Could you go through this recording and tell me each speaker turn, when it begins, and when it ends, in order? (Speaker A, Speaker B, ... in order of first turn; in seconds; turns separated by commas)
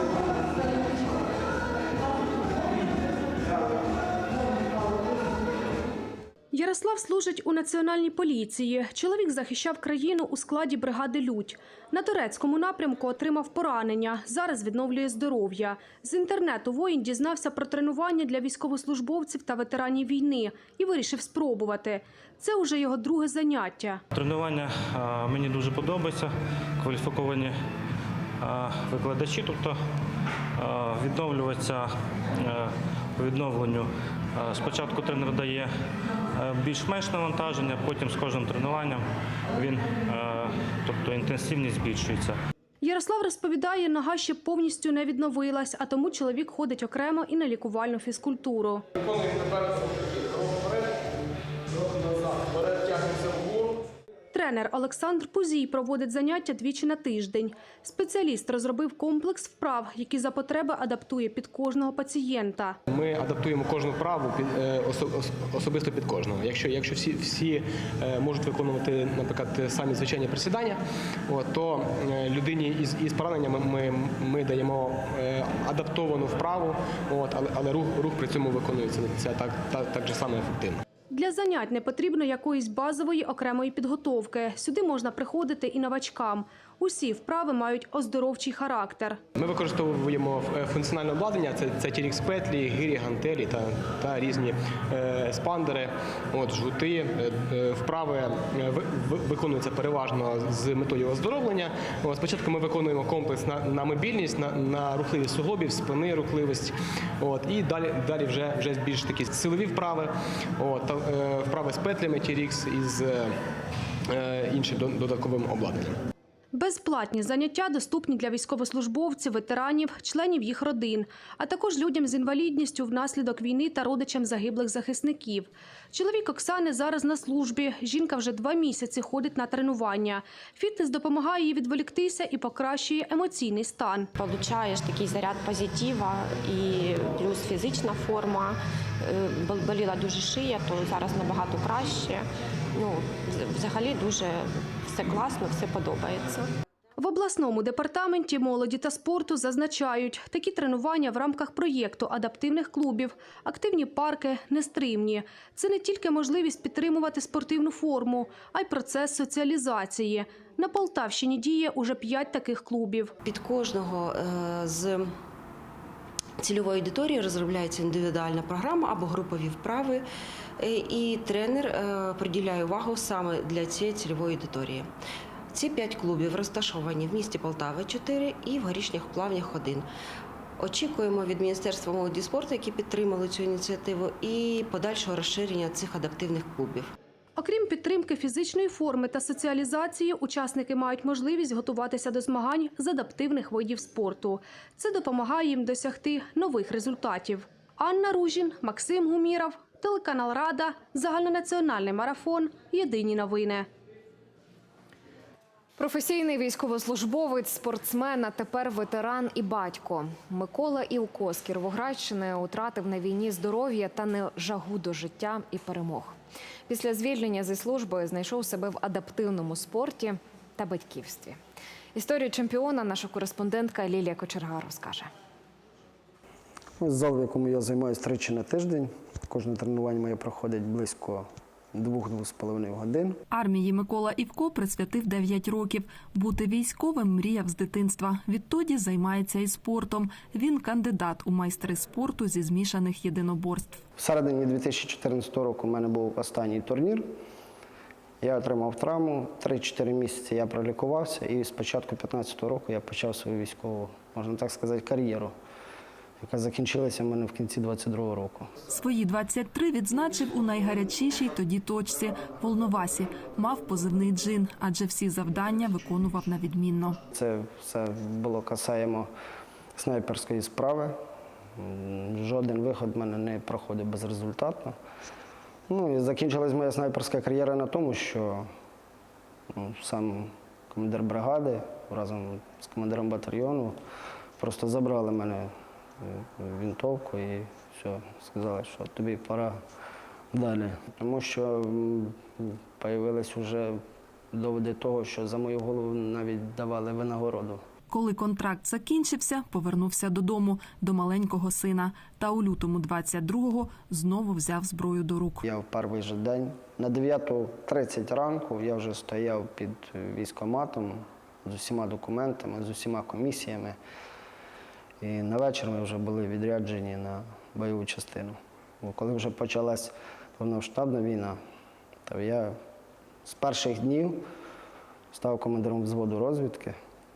Speaker A: 6.5-24.0, Speaker B: 24.1-27.5, Speaker B: 28.4-29.8, Speaker B: 30.6-35.7, Speaker B: 36.4-42.4, Speaker A: 42.8-48.9, Speaker C: 49.0-51.0, Speaker C: 51.8-53.8, Speaker A: 54.3-62.8, Speaker C: 62.9-80.8, Speaker A: 81.1-89.2, Speaker C: 89.3-113.4, Speaker C: 114.1-116.0, Speaker A: 116.5-134.1, Speaker D: 134.2-146.5, Speaker A: 147.0-163.1, Speaker E: 163.2-165.1, Speaker E: 166.4-170.1, Speaker E: 170.6-174.9, Speaker E: 175.5-179.9, Speaker E: 180.6-186.9, Speaker A: 187.4-203.7, Speaker F: 205.8-216.2, Speaker F: 216.7-221.4, Speaker F: 221.9-225.1, Speaker G: 226.8-233.2, Speaker H: 233.3-243.8, Speaker G: 244.0-247.1, Speaker G: 248.2-255.3, Speaker G: 256.2-258.5, Speaker H: 258.7-267.0, Speaker G: 267.1-269.1, Speaker G: 269.8-270.9, Speaker G: 271.6-274.8, Speaker G: 275.7-278.5, Speaker G: 279.5-283.8, Speaker G: 284.4-285.5, Speaker G: 286.0-289.6, Speaker G: 290.3-293.8, Speaker G: 294.3-297.6, Speaker H: 297.9-305.4, Speaker G: 305.4-313.8, Speaker G: 315.0-321.4, Speaker G: 322.1-322.5, Speaker G: 323.2-324.2, Speaker G: 325.1-326.8